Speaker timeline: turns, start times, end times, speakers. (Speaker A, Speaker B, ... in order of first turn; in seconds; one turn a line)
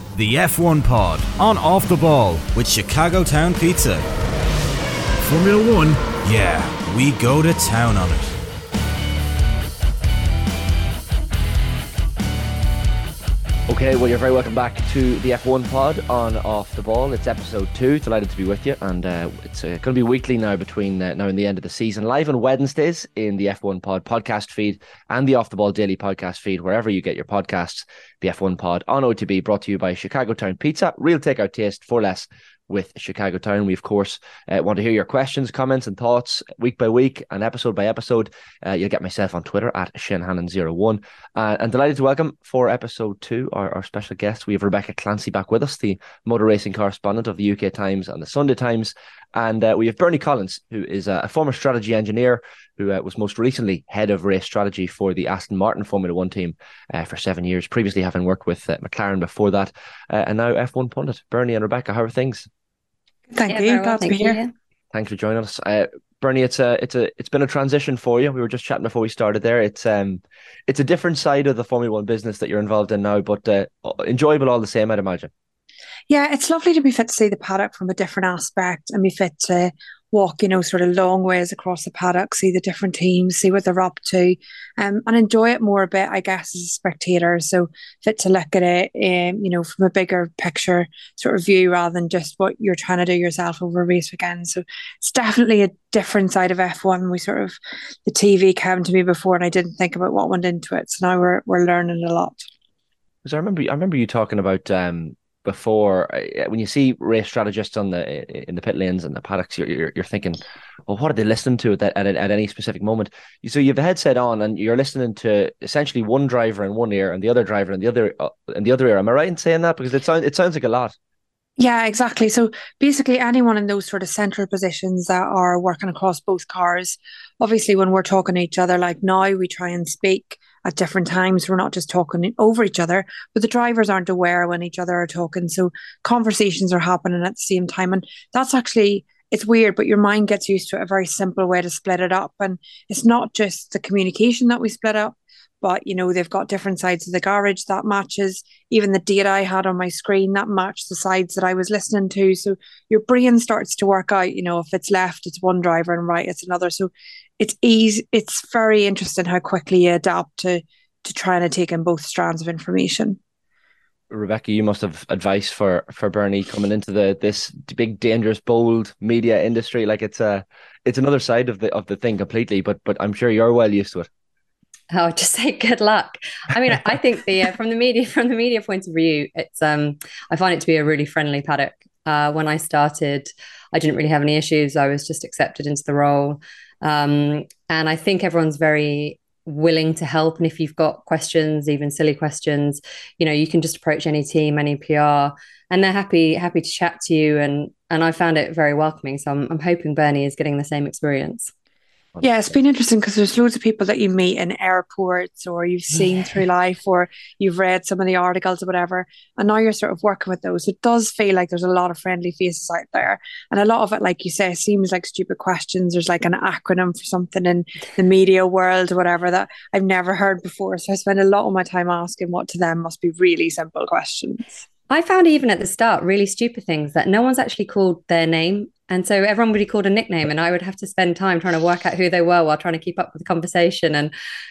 Speaker A: 0.1-4.1
Speaker A: 5.2-8.4
Speaker B: 13.7-62.5
Speaker C: 63.3-64.4
Speaker D: 63.5-64.5
Speaker B: 64.9-75.3
Speaker C: 76.1-102.4
Speaker B: 103.2-120.9
Speaker C: 121.6-163.2
Speaker B: 164.1-174.1
Speaker D: 174.9-201.5
Speaker C: 202.2-224.6
Speaker D: 224.9-234.1